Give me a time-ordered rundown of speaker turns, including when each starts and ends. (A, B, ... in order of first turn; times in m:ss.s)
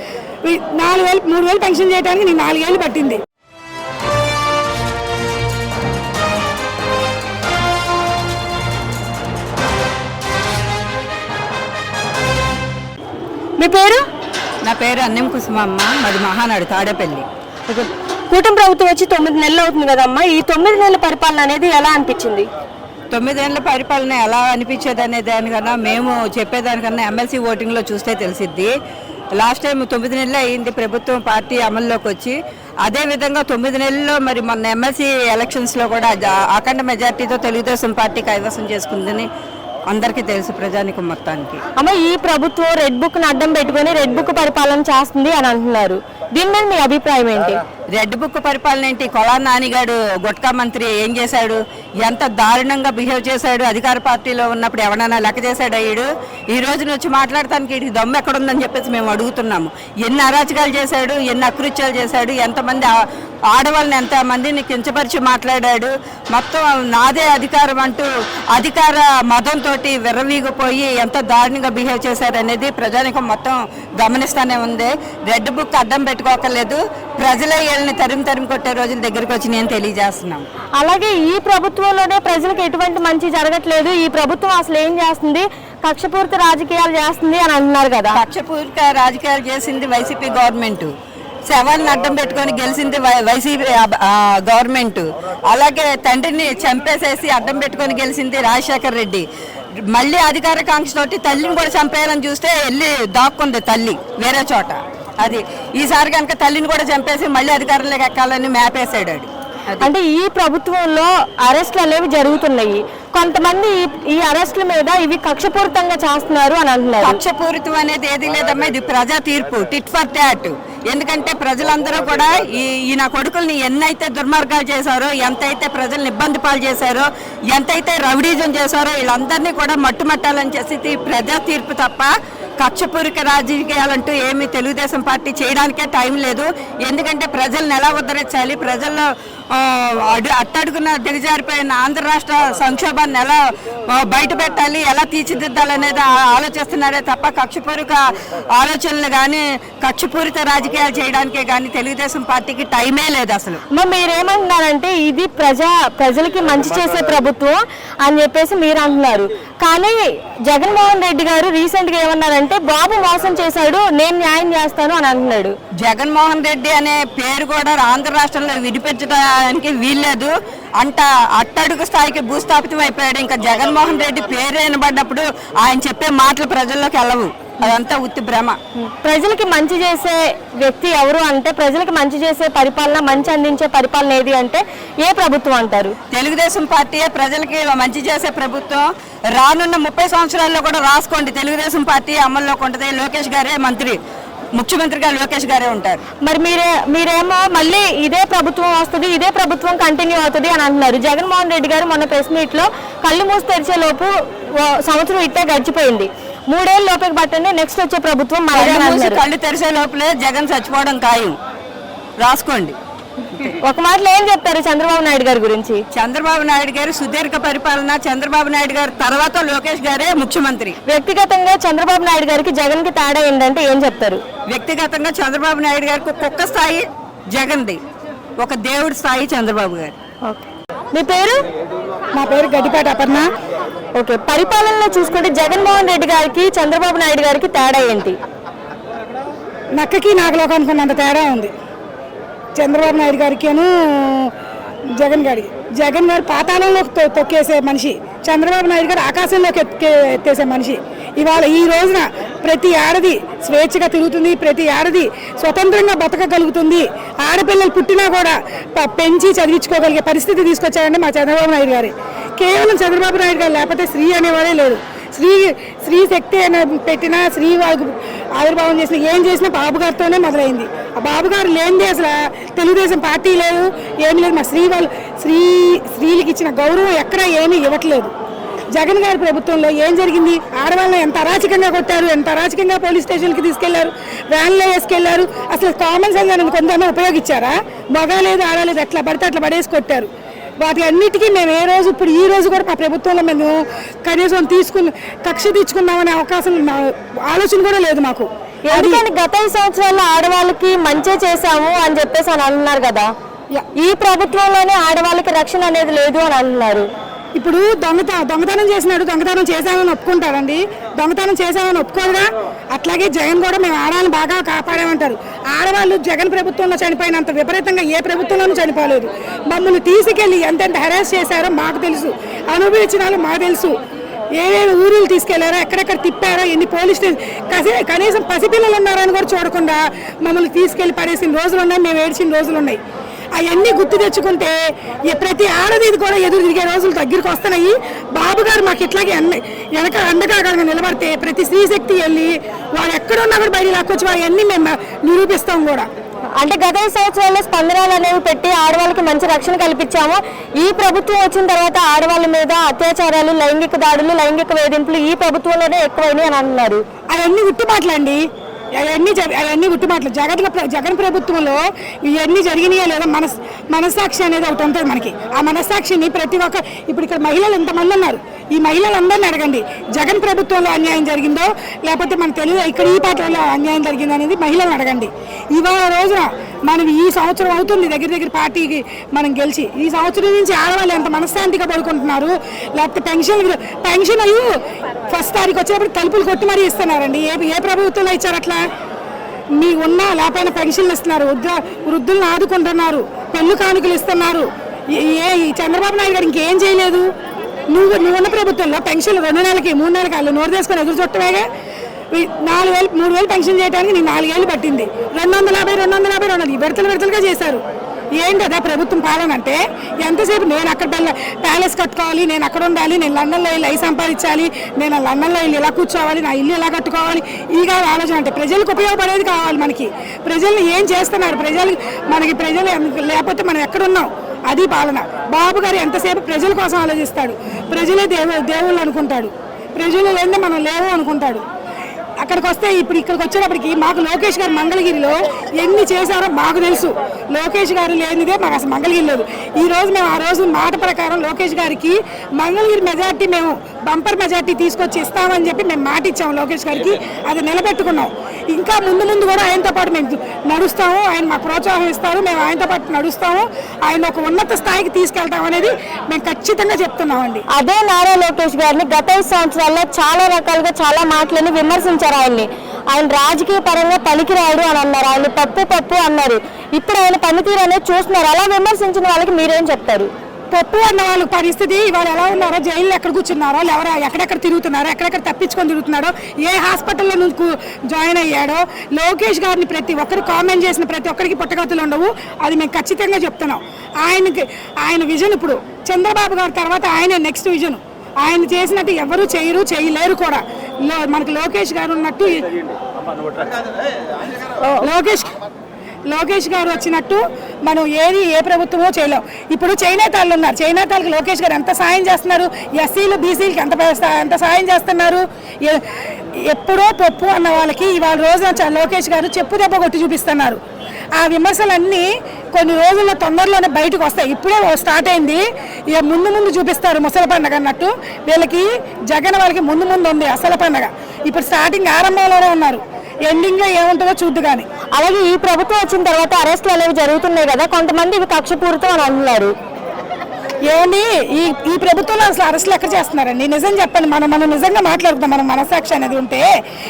0:00.4-0:03.2 A
0:13.6-0:14.1 B
0:14.6-0:17.3 C
0:17.7-0:22.5 B
0:23.1-0:28.7 C
0:29.4-0:39.3 C
0:39.9-0:41.6 C
0:41.8-0:47.6 B
0:47.9-1:02.9 C
1:03.5-1:20.5 C
1:20.8-1:28.2 B
1:28.1-1:30.9 C
1:31.5-1:39.3 C
1:39.9-1:49.9 C
1:49.8-1:57.2 B
1:57.0-2:33.6 C
2:33.7-2:45.6 B
2:45.8-2:58.6 C
2:58.8-3:06.0 B
3:06.1-3:14.0 C
3:14.6-3:16.0 C
3:16.2-3:29.2 B
3:28.5-3:31.4 C
3:32.2-3:32.8 C
3:33.5-3:35.8 B
3:35.9-3:40.8 C
3:40.9-3:44.2 B
3:44.5-3:47.8 C
3:48.4-3:50.0 C
3:50.2-3:51.4 B
3:52.1-3:53.3 A
3:54.0-3:58.2 B
3:59.8-4:01.5 A
4:02.6-4:04.3 A
4:04.9-4:38.1 A
4:38.7-4:50.1 A
4:50.6-4:59.0 A
4:58.7-5:03.1 B
5:03.8-5:06.9 B
5:07.4-5:23.8 A
5:24.4-5:32.8 A
5:33.4-5:45.9 A
5:46.4-5:56.8 B
5:57.1-5:58.2 A
5:58.8-6:24.6 A
6:25.1-6:28.7 A
6:29.6-6:37.1 A
6:37.7-6:41.5 A
6:42.1-6:47.6 A
6:48.2-7:11.4 A
7:12.2-7:37.4 A
7:37.5-7:50.1 B
7:50.5-8:12.5 A
8:14.8-8:15.3 A
8:16.1-8:30.6 A
8:31.1-8:44.7 A
8:45.0-8:49.5 B
8:50.7-8:56.5 A